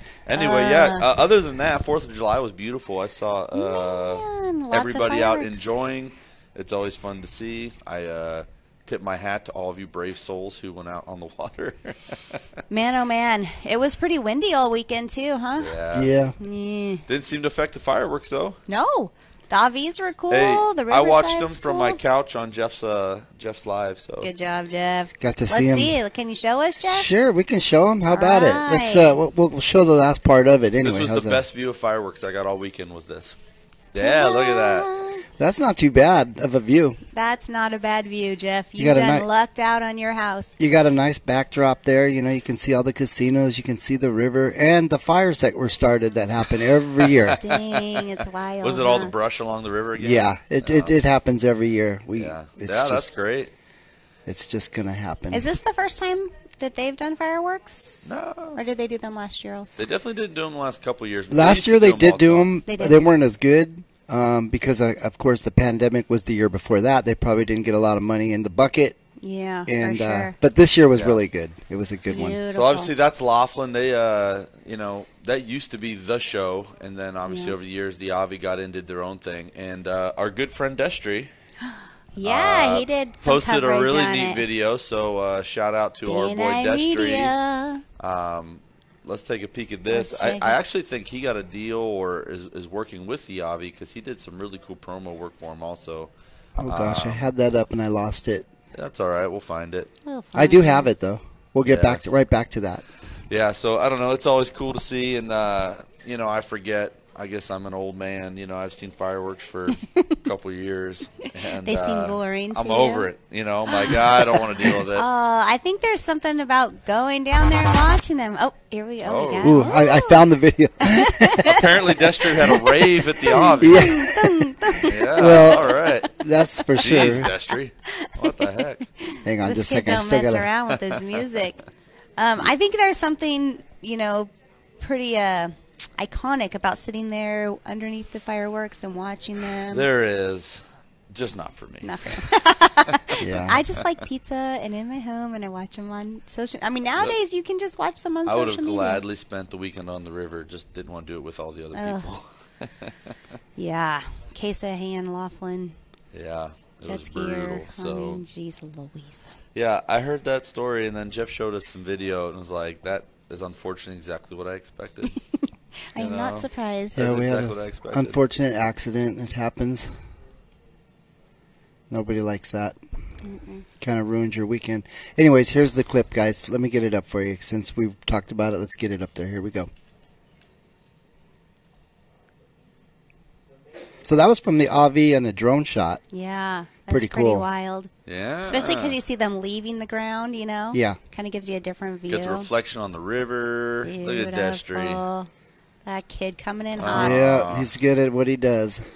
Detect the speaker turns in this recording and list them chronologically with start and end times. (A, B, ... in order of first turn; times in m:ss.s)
0:00.3-0:12.4 A
0:00.3-0:01.1 B
0:03.5-0:05.7 B
0:12.7-0:15.7 B
0:15.6-0:16.1 A
0:15.9-0:16.4 C
0:16.4-0:17.0 B
0:17.1-0:18.6 A
0:18.7-0:22.0 B
0:20.3-0:24.3 A
0:24.2-0:27.1 B
0:25.2-0:26.0 C
0:26.9-0:31.4 C
0:28.1-0:29.2 B
0:30.8-0:33.4 A
0:33.9-0:34.9 A
0:34.0-0:35.2 B
0:35.4-0:37.0 C
0:37.1-0:40.5 B
0:38.8-0:39.2 C
0:40.6-0:47.4 C
0:47.1-0:48.0 A
0:47.4-0:49.1 B
0:48.6-0:51.0 A
0:50.0-0:53.1 C
0:52.2-0:53.5 A
0:54.3-0:55.5 C
0:55.3-0:59.8 B
0:58.1-0:58.6 A
0:59.8-1:02.5 A
1:01.3-1:09.0 C
1:02.7-1:03.0 B
1:09.2-1:10.4 B
1:09.7-1:12.4 C
1:12.1-1:12.9 B
1:12.3-1:21.3 A
1:17.3-1:17.6 B
1:21.6-1:24.4 B
1:22.2-1:27.3 A
1:26.1-1:27.8 B
1:28.0-1:36.1 A
1:29.9-1:30.6 B
1:36.6-1:38.5 C
1:36.7-1:37.2 A
1:38.7-1:39.9 A
1:40.1-1:40.9 B
1:40.4-1:42.8 C
1:41.7-1:42.0 A
1:43.3-1:55.0 A
1:49.8-1:50.2 B
1:51.6-1:53.1 B
1:53.7-2:06.2 B
1:59.0-1:59.6 A
1:59.4-2:01.6 C
2:01.4-2:04.0 A
2:03.3-2:07.3 C
2:04.8-2:06.1 A
2:06.8-2:08.8 A
2:07.9-2:08.4 B
2:09.0-2:11.6 B
2:09.2-2:10.5 C
2:12.2-2:19.9 B
2:19.7-2:22.4 A
2:21.8-2:29.0 B
2:23.2-2:23.6 C
2:28.3-2:33.0 A
2:31.7-2:32.1 B
2:33.6-2:35.8 B
2:36.1-2:38.2 A
2:36.9-2:39.3 B
2:39.6-2:45.2 A
2:45.9-2:47.1 B
2:46.0-2:48.2 A
2:47.0-2:49.9 C
2:51.9-2:52.8 C
2:53.2-2:53.7 B
2:53.8-2:59.7 C
3:04.0-3:06.0 C
3:06.1-3:07.9 B
3:06.9-3:07.5 C
3:08.1-3:09.0 A
3:08.4-3:12.5 B
3:10.7-3:11.0 C
3:12.1-3:15.0 A
3:13.8-3:15.3 B
3:15.8-3:17.2 B
3:16.8-3:17.7 A
3:16.9-3:18.8 C